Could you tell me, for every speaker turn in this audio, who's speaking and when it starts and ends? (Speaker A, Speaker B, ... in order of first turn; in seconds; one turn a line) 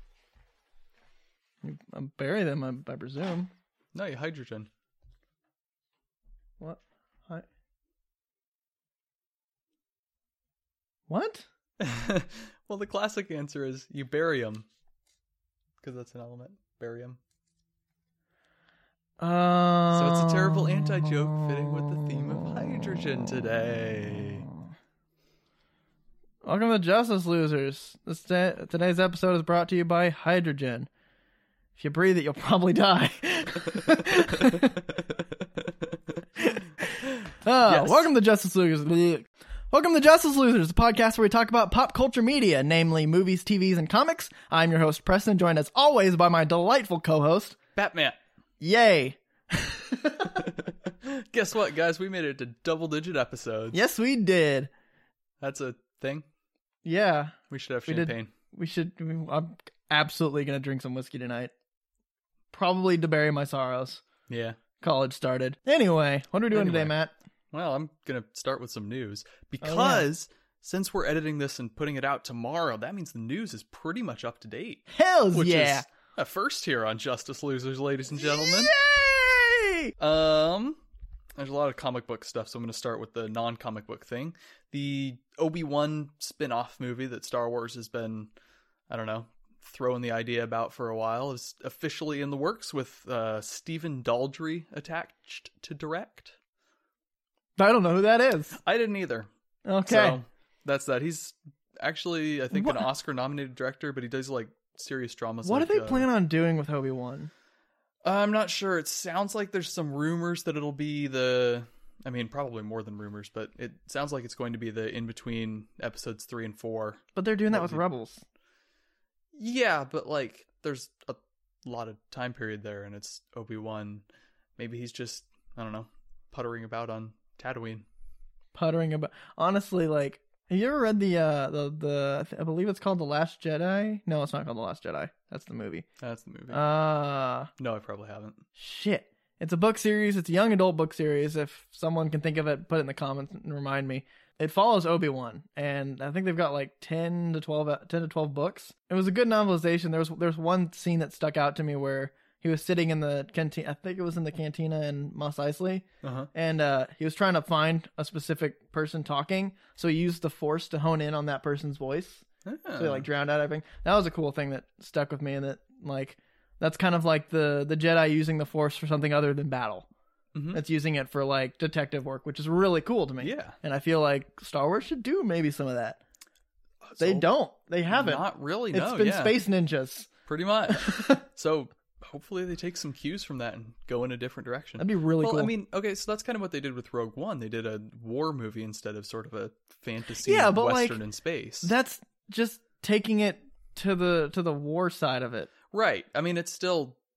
Speaker A: 1.6-3.5
Speaker B: 3.9-4.7
Speaker A: 6.6-7.5
Speaker A: 11.1-11.5
Speaker B: 11.8-14.7
Speaker B: 15.8-17.2
Speaker A: 19.2-22.6
Speaker B: 19.9-24.5
Speaker A: 26.4-30.9
Speaker A: 31.8-34.8
Speaker B: 34.4-36.2
Speaker B: 37.0-38.1
Speaker A: 37.3-47.5
Speaker B: 47.8-48.2
Speaker A: 48.6-50.5
Speaker B: 50.2-53.8
Speaker A: 53.7-54.7
Speaker B: 55.4-56.2
Speaker A: 56.8-57.4
Speaker B: 57.5-58.3
Speaker A: 57.9-61.5
Speaker A: 62.5-64.0
Speaker B: 64.3-64.6
Speaker A: 64.8-67.1
Speaker B: 66.5-66.9
Speaker B: 67.5-78.7
Speaker A: 69.6-70.0
Speaker A: 74.9-75.8
Speaker A: 78.2-79.9
Speaker B: 80.0-80.8
Speaker B: 81.4-88.3
Speaker B: 88.9-96.3
Speaker A: 97.6-98.5
Speaker B: 98.5-99.3
Speaker A: 99.6-100.2
Speaker B: 99.8-106.1
Speaker A: 102.5-102.8
Speaker A: 105.4-107.3
Speaker B: 108.0-117.8
Speaker A: 117.1-118.2
Speaker B: 119.3-124.0
Speaker B: 124.6-127.8
Speaker A: 128.5-135.9
Speaker B: 136.0-136.6
Speaker A: 136.5-137.5
Speaker B: 137.6-138.4
Speaker A: 138.6-169.9
Speaker B: 156.0-156.3
Speaker B: 162.4-163.1
Speaker B: 170.3-170.6
Speaker A: 170.5-176.0
Speaker B: 173.2-173.6
Speaker B: 176.8-177.3
Speaker A: 177.0-180.1
Speaker B: 177.9-179.4
Speaker B: 180.2-191.7
Speaker A: 180.7-181.2
Speaker A: 184.8-185.5
Speaker A: 190.2-191.0
Speaker A: 191.6-195.5
Speaker B: 195.7-197.0